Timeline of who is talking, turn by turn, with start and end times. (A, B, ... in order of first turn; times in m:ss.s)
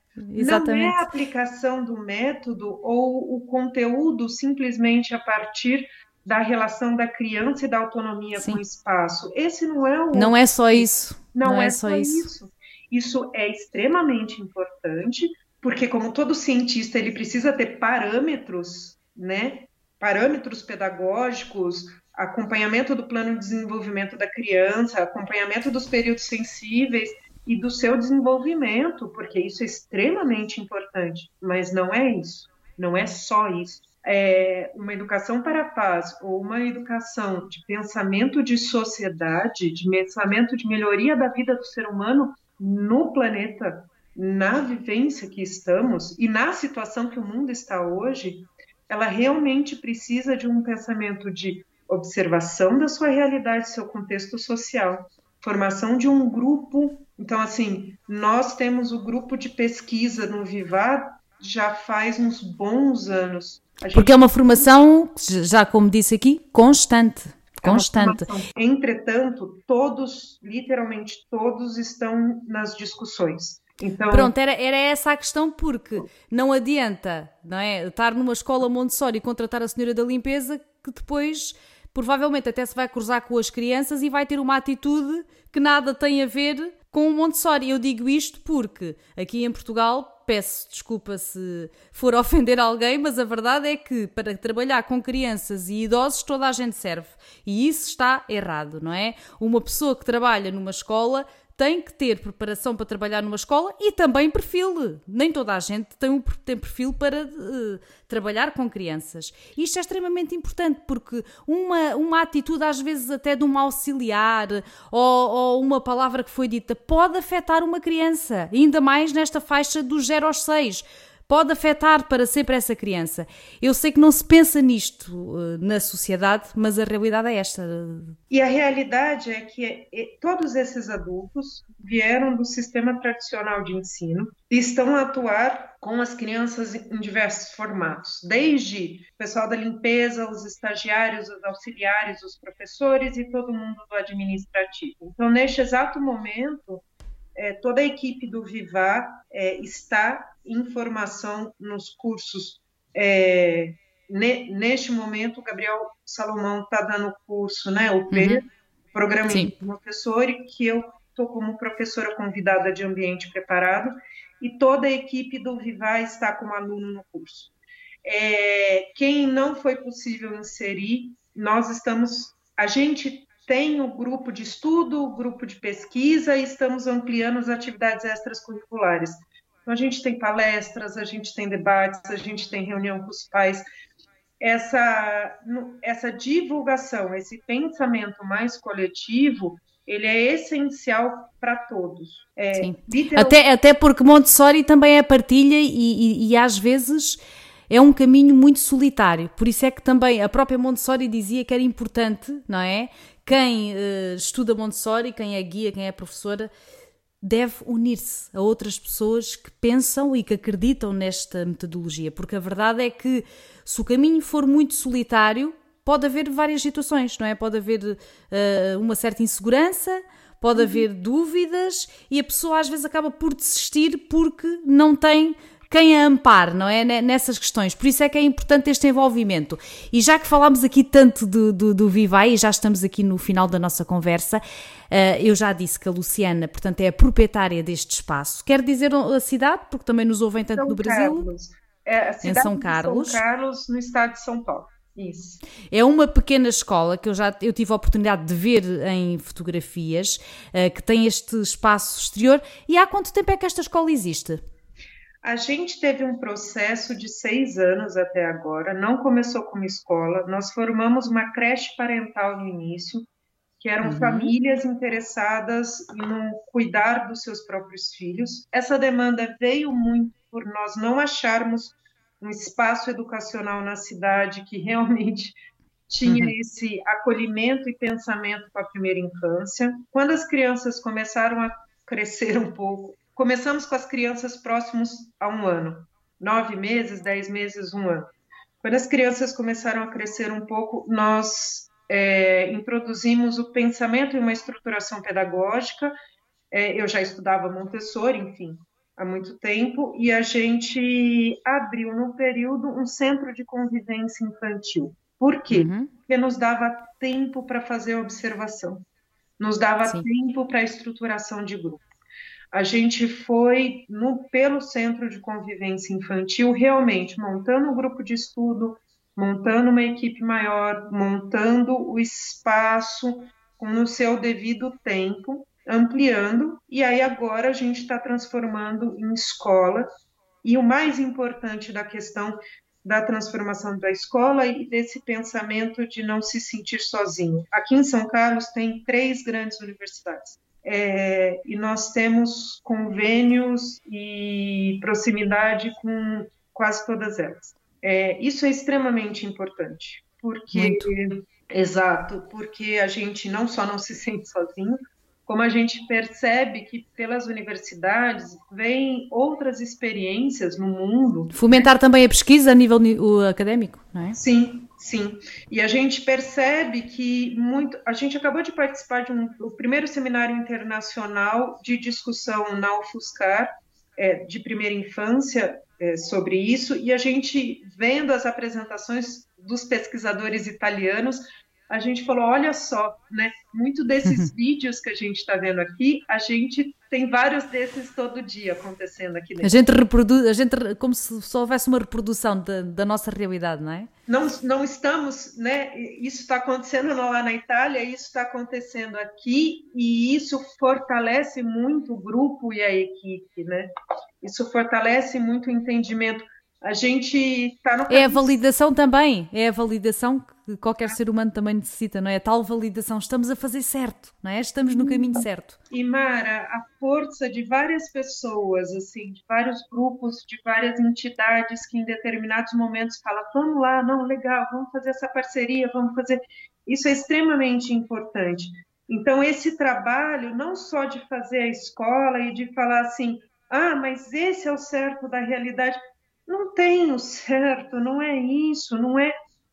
0:00.3-0:01.0 A
0:00.4-1:04.7 B
0:08.4-0:08.6 A
0:10.1-0:12.3 A
1:03.9-1:08.2 A
1:07.6-1:14.3 B
1:14.1-2:08.1 A
2:08.3-2:26.8 B
2:27.4-2:47.5 B
2:38.1-2:38.4 A
2:48.0-3:03.6 B
3:04.4-3:13.4 B
3:12.5-3:26.5 A
3:27.2-4:01.3 A
3:40.5-3:40.8 B
4:00.5-4:05.4 B
4:02.2-4:03.2 A
4:05.7-4:14.4 A
4:15.2-4:23.1 B
4:23.6-4:35.4 B
4:23.8-4:24.3 A
4:35.9-4:55.9 B
4:36.0-4:36.3 A
4:56.5-5:08.8 B
5:05.5-5:05.9 A
5:09.4-5:11.8 B
5:12.5-5:29.9 B
5:30.4-6:01.7 B
5:50.5-5:50.8 A
6:01.3-6:04.2 A
6:04.1-6:29.5 B
6:24.0-6:24.3 A
6:29.4-6:33.9 A
6:34.1-6:43.7 B
6:44.2-6:48.4 B
6:47.9-6:55.6 A
6:54.7-7:19.1 B